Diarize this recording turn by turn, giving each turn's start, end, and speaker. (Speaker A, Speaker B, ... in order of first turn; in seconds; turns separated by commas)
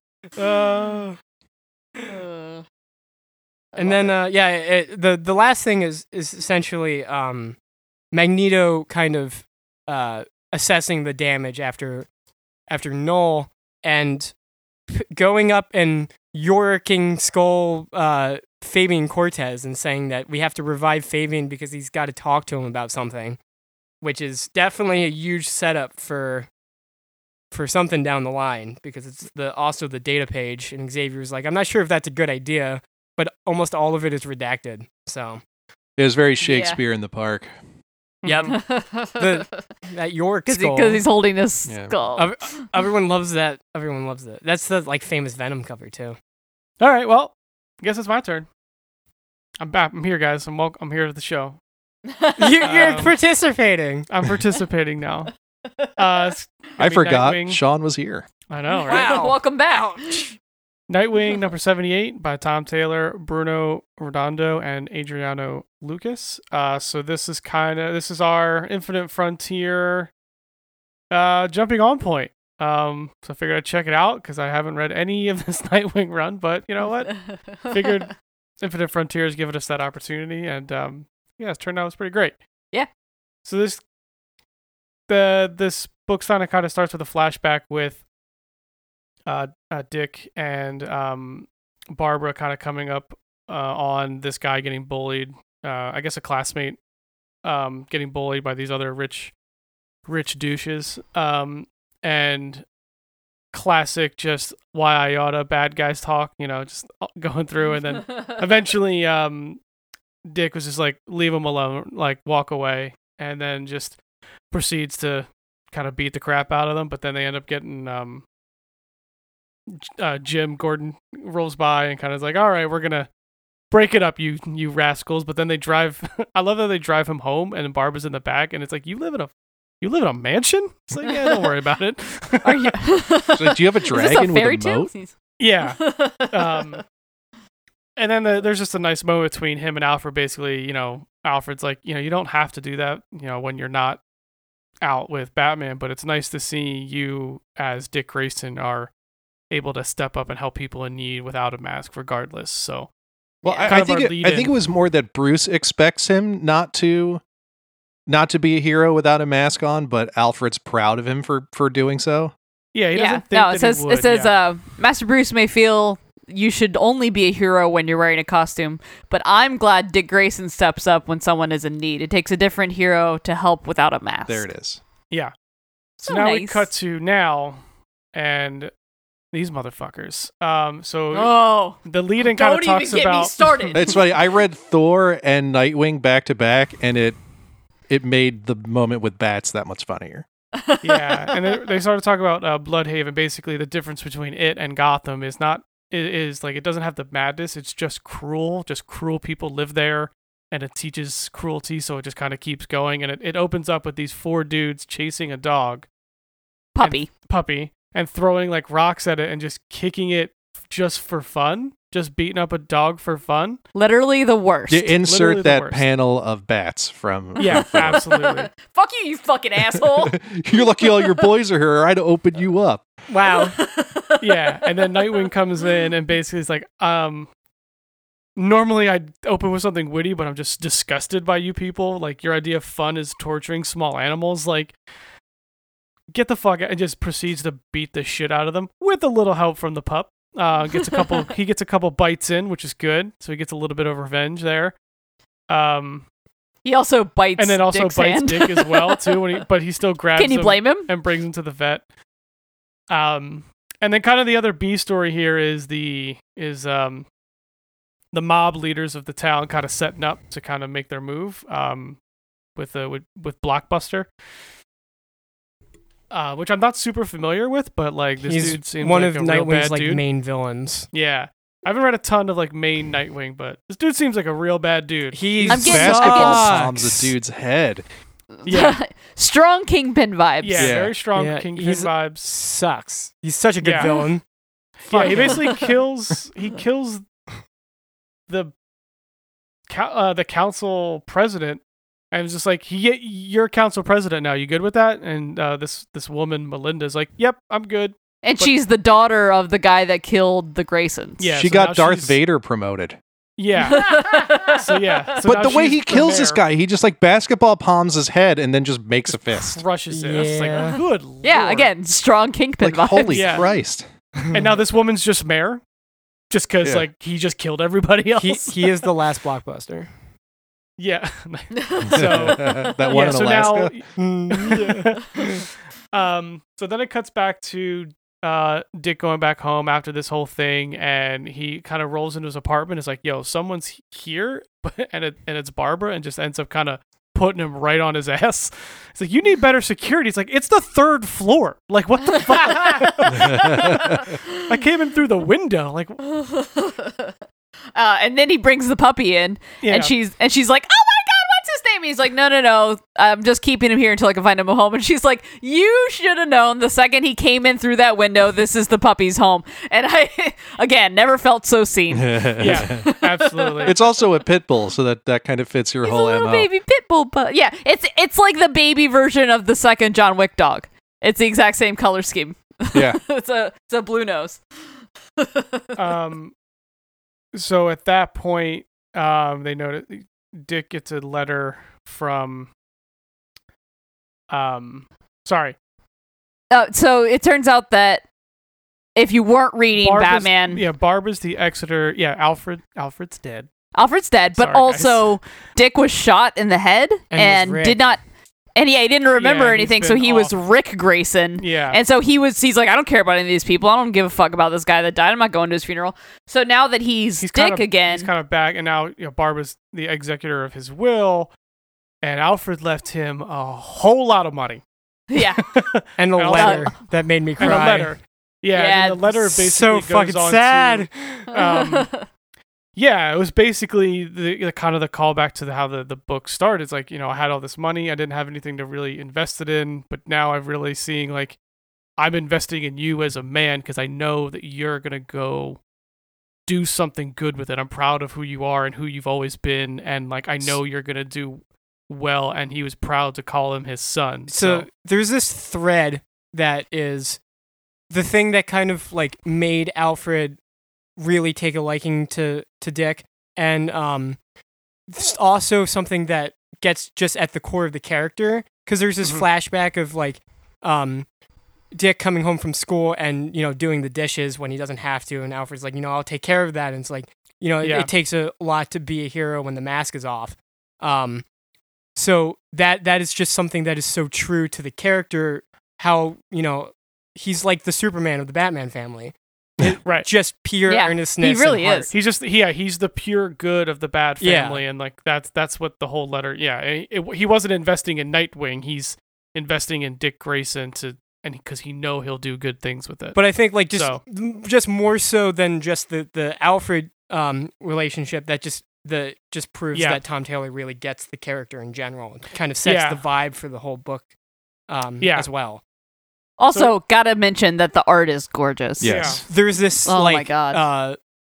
Speaker A: 0.4-1.1, Speaker B: 2.0-2.6, Speaker B: 3.7-4.1, Speaker C: 3.7-7.5, Speaker C: 8.1-12.1, Speaker C: 12.7-14.3, Speaker C: 14.9-23.4, Speaker C: 24.0-26.5, Speaker C: 27.5-35.4, Speaker D: 36.0-37.5, Speaker B: 36.4-36.8, Speaker A: 38.2-38.6, Speaker C: 38.2-38.6, Speaker B: 38.5-39.6, Speaker C: 39.1-41.0, Speaker B: 40.5-42.5, Speaker D: 41.7-41.9, Speaker C: 42.1-46.2, Speaker A: 46.8-48.5, Speaker A: 49.6-51.6, Speaker B: 52.0-53.0, Speaker C: 52.4-54.1, Speaker A: 52.6-53.1, Speaker A: 54.1-55.3, Speaker B: 55.6-56.3, Speaker A: 56.0-57.6, Speaker D: 56.8-58.2, Speaker A: 58.5-59.2, Speaker B: 58.8-60.3, Speaker C: 58.9-60.2, Speaker A: 60.9-70.1, Speaker A: 71.1-82.4, Speaker B: 77.1-77.6, Speaker A: 83.4-83.8, Speaker A: 85.1-88.0, Speaker A: 89.2-96.8, Speaker A: 97.4-99.3, Speaker A: 100.0-102.7, Speaker A: 103.5-109.6, Speaker B: 107.7-108.4, Speaker A: 110.3-114.0, Speaker A: 114.5-118.2, Speaker A: 119.7-123.1, Speaker A: 123.7-132.8, Speaker B: 131.0-131.5, Speaker B: 132.4-135.1, Speaker D: 133.3-134.9, Speaker A: 135.4-136.8, Speaker B: 135.6-136.8, Speaker A: 138.0-144.0, Speaker A: 144.8-148.9, Speaker A: 149.5-152.9, Speaker D: 153.4-157.2, Speaker B: 153.4-153.9, Speaker A: 153.6-154.5, Speaker D: 158.1-162.3, Speaker A: 162.7-164.3, Speaker B: 162.9-174.4, Speaker D: 174.3-174.8, Speaker A: 176.0-177.6, Speaker B: 176.1-176.7, Speaker A: 178.1-178.7, Speaker A: 179.3-183.8, Speaker B: 181.1-184.0, Speaker D: 183.7-187.2, Speaker D: 187.9-190.2, Speaker B: 190.5-191.6, Speaker A: 190.8-205.9, Speaker B: 206.7-207.1, Speaker A: 206.8-213.6, Speaker B: 213.7-214.9, Speaker D: 214.7-218.0, Speaker A: 215.0-215.8, Speaker B: 217.3-221.2, Speaker A: 217.4-218.5, Speaker D: 219.7-222.8, Speaker C: 223.1-223.6, Speaker B: 223.2-225.8, Speaker A: 224.2-227.3, Speaker A: 228.3-234.8, Speaker A: 236.1-244.7, Speaker B: 240.8-241.2, Speaker A: 245.5-246.0, Speaker B: 246.6-249.2, Speaker A: 247.4-251.8, Speaker B: 250.2-250.9, Speaker A: 252.9-257.1, Speaker A: 258.1-262.0, Speaker A: 262.6-264.1, Speaker A: 266.1-270.0, Speaker C: 268.2-270.9, Speaker A: 270.9-275.9, Speaker C: 275.1-277.1, Speaker B: 275.5-276.5, Speaker D: 275.6-277.8, Speaker B: 278.4-280.8, Speaker A: 278.4-278.8, Speaker A: 280.4-282.3, Speaker D: 280.6-280.9, Speaker C: 281.1-284.2, Speaker A: 283.6-283.9, Speaker B: 283.8-284.1, Speaker A: 284.8-287.1, Speaker C: 284.9-285.5, Speaker B: 285.0-285.7, Speaker A: 289.7-298.5, Speaker B: 298.2-301.3, Speaker A: 301.2-302.1, Speaker D: 301.3-303.0, Speaker A: 303.4-306.4, Speaker B: 303.6-305.2, Speaker D: 305.2-309.6, Speaker A: 309.1-311.7, Speaker C: 309.9-310.8, Speaker B: 311.2-313.4, Speaker D: 312.6-313.9, Speaker A: 313.1-313.4, Speaker A: 314.3-315.6, Speaker A: 316.3-318.7, Speaker C: 318.1-319.9, Speaker A: 320.8-346.0, Speaker B: 321.6-322.6, Speaker D: 321.8-323.7, Speaker C: 323.9-325.4, Speaker B: 342.2-344.3, Speaker D: 343.1-343.9, Speaker B: 346.0-347.1, Speaker B: 347.7-363.7, Speaker A: 349.6-349.9, Speaker D: 361.9-362.9, Speaker A: 362.4-363.7, Speaker D: 363.6-366.5, Speaker B: 365.8-374.4, Speaker D: 372.7-373.0, Speaker B: 375.2-375.8, Speaker A: 375.8-376.3, Speaker A: 377.3-382.5, Speaker A: 384.3-385.6, Speaker B: 386.5-388.0, Speaker B: 388.9-390.6, Speaker A: 389.7-393.5, Speaker B: 393.7-398.0, Speaker A: 394.4-395.1, Speaker C: 397.1-397.8, Speaker B: 398.6-408.1, Speaker A: 399.2-400.3, Speaker A: 401.4-401.8, Speaker A: 407.2-411.3, Speaker A: 412.0-414.6, Speaker B: 415.1-415.6, Speaker A: 415.2-416.7, Speaker C: 416.0-417.9, Speaker B: 416.3-416.7, Speaker A: 417.4-421.9, Speaker B: 418.5-419.4, Speaker C: 419.4-421.3, Speaker B: 421.3-422.0, Speaker A: 422.7-431.4, Speaker A: 432.0-435.6, Speaker A: 436.4-444.7, Speaker C: 444.3-447.2, Speaker C: 447.9-450.4, Speaker C: 451.0-454.2, Speaker C: 454.9-461.1, Speaker C: 461.7-471.2, Speaker A: 467.6-467.9, Speaker C: 471.9-481.9, Speaker B: 480.6-481.9, Speaker A: 481.9-494.0, Speaker C: 484.2-484.6, Speaker C: 493.1-504.1, Speaker A: 499.7-500.0, Speaker A: 502.6-503.0, Speaker C: 504.7-505.6, Speaker A: 505.0-505.3, Speaker B: 506.4-509.2, Speaker D: 508.8-509.2, Speaker A: 508.8-509.2, Speaker C: 509.3-511.0, Speaker B: 509.8-510.6